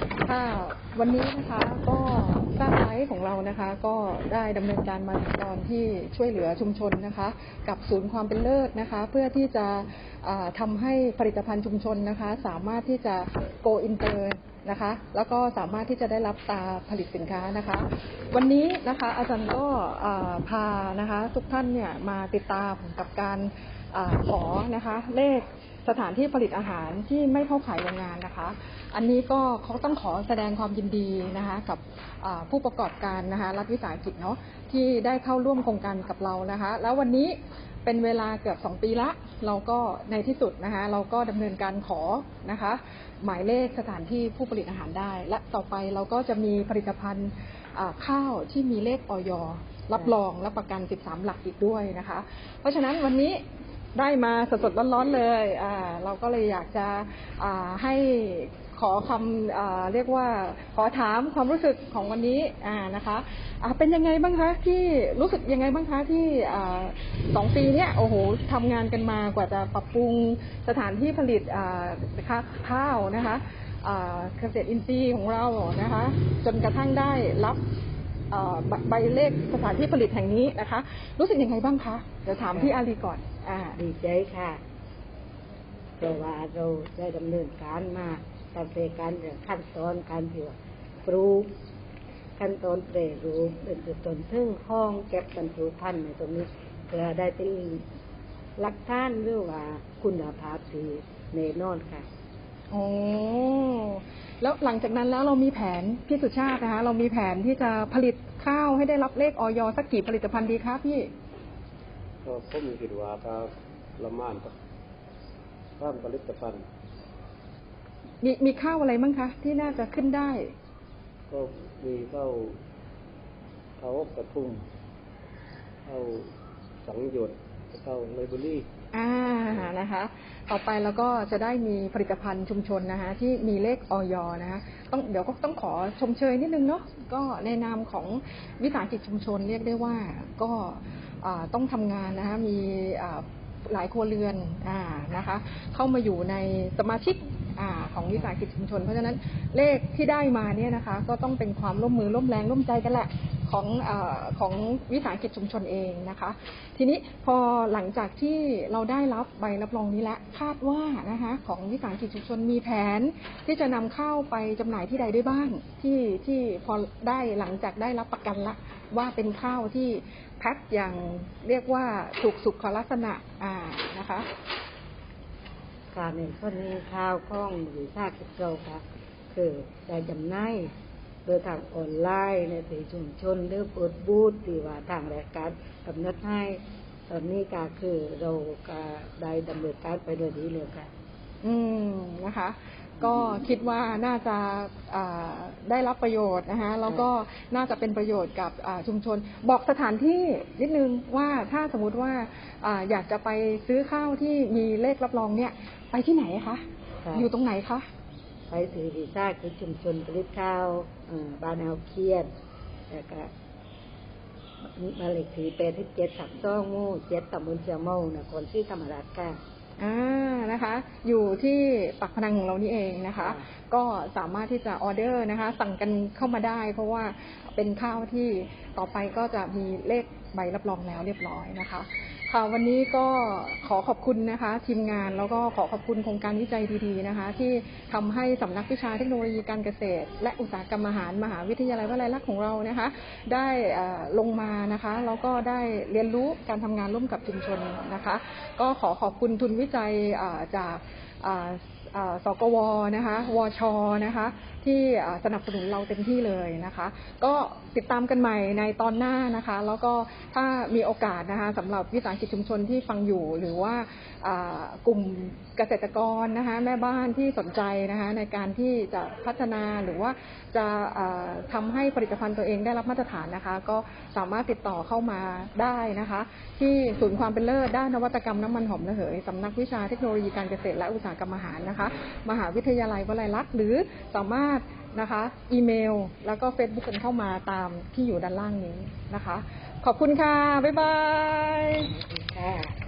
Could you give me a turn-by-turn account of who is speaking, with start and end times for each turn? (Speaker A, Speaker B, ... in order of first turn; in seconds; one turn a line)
Speaker A: 0.2-53.4
Speaker A: 53.9-77.6
Speaker A: 78.3-83.8
Speaker B: 83.8-84.6
Speaker B: 86.0-91.5
Speaker B: 92.4-97.8
Speaker B: 98.6-102.1
Speaker A: 102.7-111.1
Speaker C: 112.2-114.5
Speaker C: 115.8-116.6
Speaker A: 118.2-120.5
Speaker C: 121.3-122.5
Speaker C: 123.8-124.6
Speaker C: 125.8-126.3
Speaker C: 126.8-128.7
Speaker A: 128.9-174.3
Speaker B: 175.9-180.7
Speaker B: 181.2-190.9
Speaker A: 191.4-207.8
Speaker B: 207.0-207.3
Speaker B: 208.5-212.3
Speaker B: 212.9-213.3
Speaker B: 214.7-219.4
Speaker A: 219.8-291.9
Speaker B: 223.2-223.4
Speaker B: 291.8-292.7